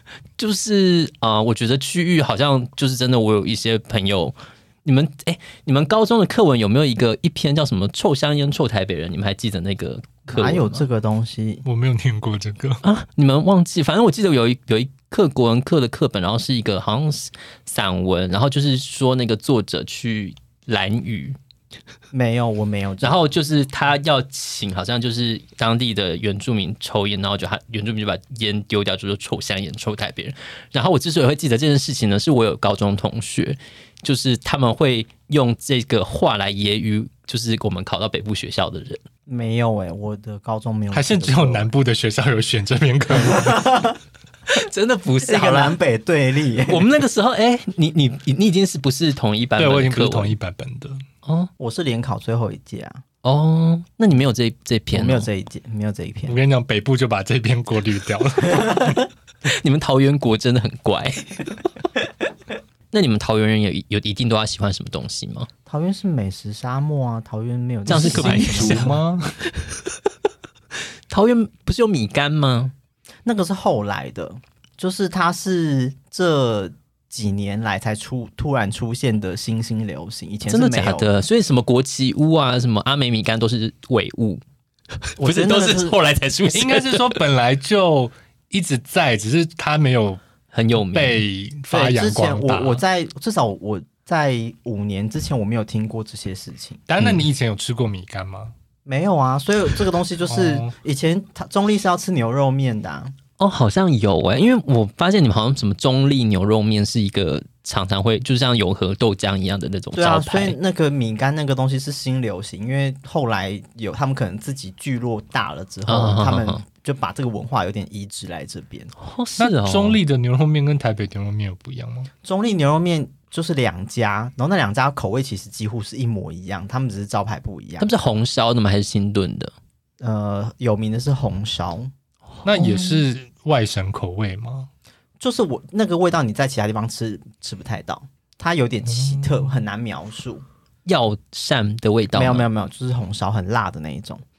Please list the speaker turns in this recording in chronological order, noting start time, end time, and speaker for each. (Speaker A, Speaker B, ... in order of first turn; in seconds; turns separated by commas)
Speaker A: 0.4-10.9, Speaker B: 10.3-11.6, Speaker C: 11.7-12.8, Speaker A: 12.8-21.4, Speaker B: 22.1-23.2, Speaker A: 23.0-39.0, Speaker B: 39.3-41.7, Speaker C: 40.9-43.7, Speaker B: 43.2-44.0, Speaker A: 44.5-45.8, Speaker B: 45.2-46.9, Speaker A: 46.7-50.4, Speaker C: 49.6-51.0, Speaker A: 51.2-51.5, Speaker B: 51.6-53.0, Speaker A: 53.2-55.3, Speaker B: 54.9-56.4, Speaker C: 56.3-59.0, Speaker A: 59.5-61.5, Speaker A: 62.9-65.5, Speaker B: 65.7-69.0, Speaker A: 67.9-68.9, Speaker C: 67.9-69.4, Speaker A: 71.1-72.7, Speaker B: 73.2-81.1, Speaker A: 80.5-84.4, Speaker A: 85.2-87.2, Speaker B: 85.2-86.0, Speaker C: 86.5-90.2, Speaker A: 90.5-91.2, Speaker C: 90.8-92.8, Speaker B: 91.7-96.8, Speaker C: 96.9-98.5, Speaker B: 98.9-103.1, Speaker C: 100.3-100.7, Speaker A: 103.4-110.6, Speaker B: 110.0-118.9, Speaker A: 115.9-116.6, Speaker A: 119.0-120.0, Speaker C: 119.4-122.1, Speaker B: 122.2-127.9, Speaker A: 127.8-129.5, Speaker B: 130.0-131.9, Speaker C: 132.4-134.7, Speaker A: 132.4-133.0, Speaker B: 135.2-140.4, Speaker C: 138.9-139.5, Speaker A: 140.9-142.5, Speaker B: 142.1-144.2